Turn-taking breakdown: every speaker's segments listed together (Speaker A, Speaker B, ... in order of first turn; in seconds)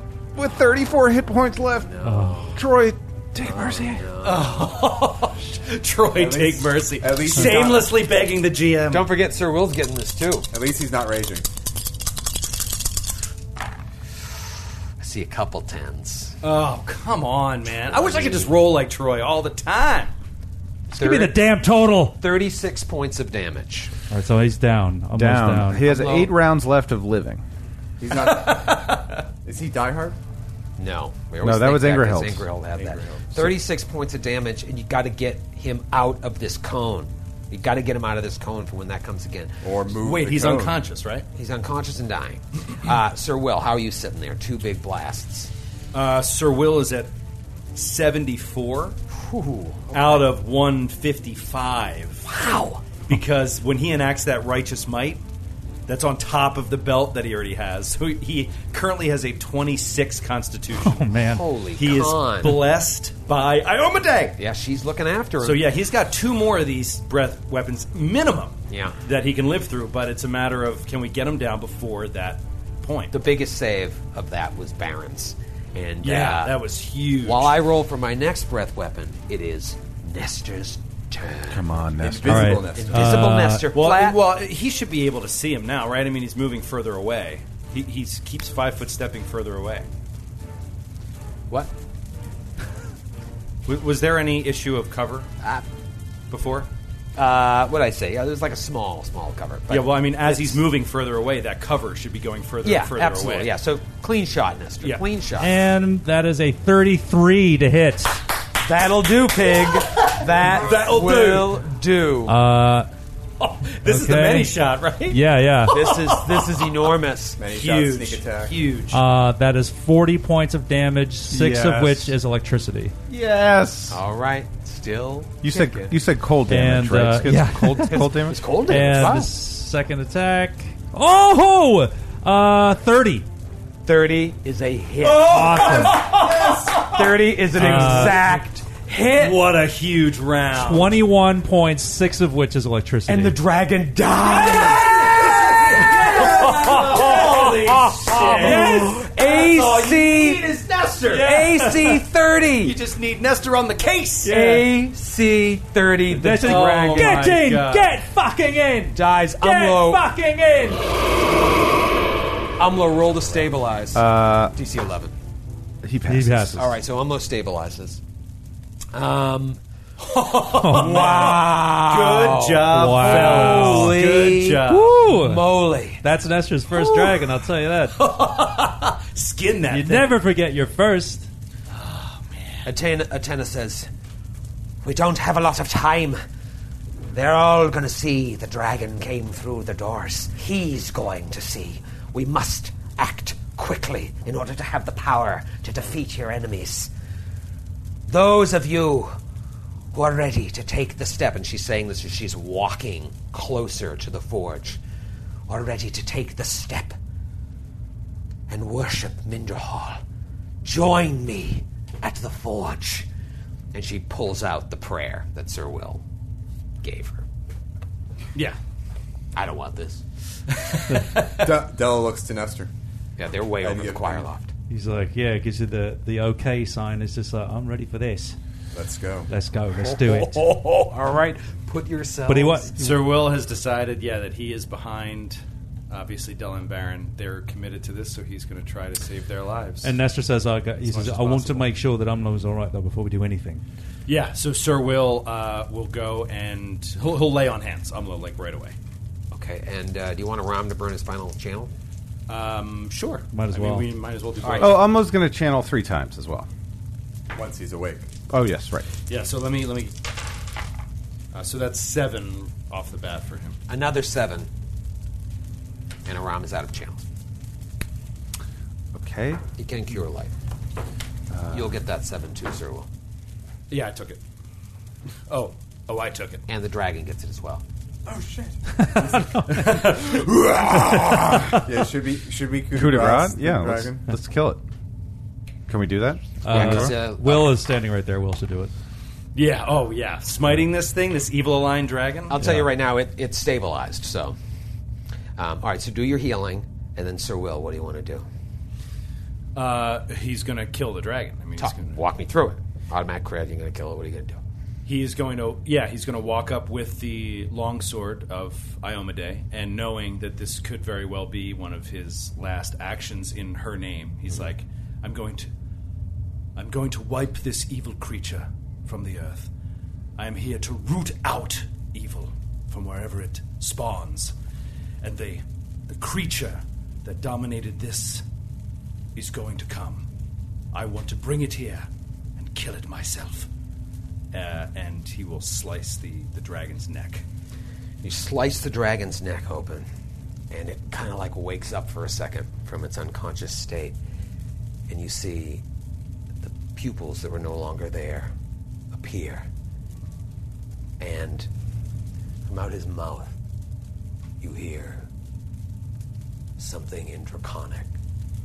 Speaker A: 0.3-1.9, 2.5-4.0, 25.1-27.4, 31.4-32.5, 81.5-82.7, 121.3-122.1, 123.1-124.0, 125.4-128.4, 163.9-164.5, 165.8-166.7, 254.6-256.5, 258.3-258.9, 268.9-269.4, 271.3-271.7, 282.7-284.6, 285.7-286.9
Speaker B: 1.8-2.6, 3.4-4.7, 8.9-10.5, 15.0-16.4, 17.9-18.5, 20.9-21.4, 22.1-23.9, 25.8-26.3, 30.8-39.6, 41.3-45.5, 49.2-50.3, 52.2-52.8, 61.2-62.6, 64.4-65.6, 68.7-68.9, 73.1-76.5, 77.2-81.7, 82.7-84.2, 97.2-100.6, 102.6-105.5, 108.6-112.4, 115.7-117.4, 123.9-125.9, 127.8-129.3, 133.8-136.2, 136.8-139.4, 143.1-150.4, 151.1-152.8, 154.2-157.2, 158.9-160.1, 162.6-165.1, 166.6-168.0, 168.9-169.6, 170.7-176.0, 182.6-183.9, 184.8-186.2, 187.1-196.9, 198.1-199.2, 199.9-204.8, 205.5-206.9, 208.5-210.0, 210.6-213.1, 213.7-216.0, 216.8-217.2, 219.3-220.0, 223.2-224.5, 229.7-232.7, 249.3-251.7, 254.4-254.8, 263.7-264.5, 266.1-267.0, 269.6-270.3, 271.5-272.9, 276.5-277.6, 286.5-287.6, 292.3-294.4, 295.4-298.2, 301.6-304.4, 338.0-339.9, 340.5-344.0, 344.9-345.6, 346.4-348.3, 348.9-349.5, 351.0-351.5, 352.5-353.3, 354.4-355.1, 356.6-357.9
Speaker C: 2.0-2.5, 20.9-22.2, 24.1-25.9, 60.8-61.4, 82.2-83.7, 105.4-108.2, 112.3-112.9, 113.8-114.5, 115.1-115.9, 118.9-122.9, 126.5-133.2, 135.3-136.1, 137.5-138.4, 140.5-143.4, 146.4-149.1, 156.1-160.8, 166.1-166.6, 170.5-170.9, 172.7-174.0, 174.7-178.0, 179.7-181.3, 224.7-228.3, 229.3-230.4, 232.3-232.9, 239.8-243.6, 253.3-253.9, 279.1-279.4, 281.1-281.6, 286.4-288.7
Speaker D: 4.2-9.1, 16.4-20.1, 28.4-28.8, 32.8-33.5, 40.0-41.2, 45.9-47.1, 47.7-49.0, 49.9-52.3, 53.0-55.2, 55.9-61.1, 61.8-64.4, 65.4-73.1, 76.0-77.5, 83.7-89.9, 93.7-95.3, 96.3-96.7, 99.7-103.5, 109.6-111.6, 113.4-116.7, 117.5-119.0, 135.0-137.0, 137.5-138.4, 139.1-141.0, 144.2-152.0, 152.6-154.7, 156.4-158.0, 170.0-175.1, 176.7-177.2, 177.9-180.2, 181.8-182.7, 220.5-221.5, 232.8-235.4, 235.9-239.9, 240.8-241.7, 244.1-248.7, 252.3-254.8, 259.1-259.9, 261.3-263.6, 273.7-274.2, 275.3-276.4, 279.4-281.1, 289.3-292.4, 299.5-302.0, 304.9-315.5, 316.6-319.5, 320.2-324.3, 325.0-328.2, 329.1-330.1, 330.7-333.5, 334.3-337.2
Speaker E: 6.1-7.9, 10.5-11.4, 28.0-30.2, 39.6-40.8, 82.0-83.1, 117.4-118.5, 136.2-136.7, 221.2-222.7, 223.6-224.3, 228.7-229.3, 257.3-258.1, 278.1-281.0, 281.5-284.0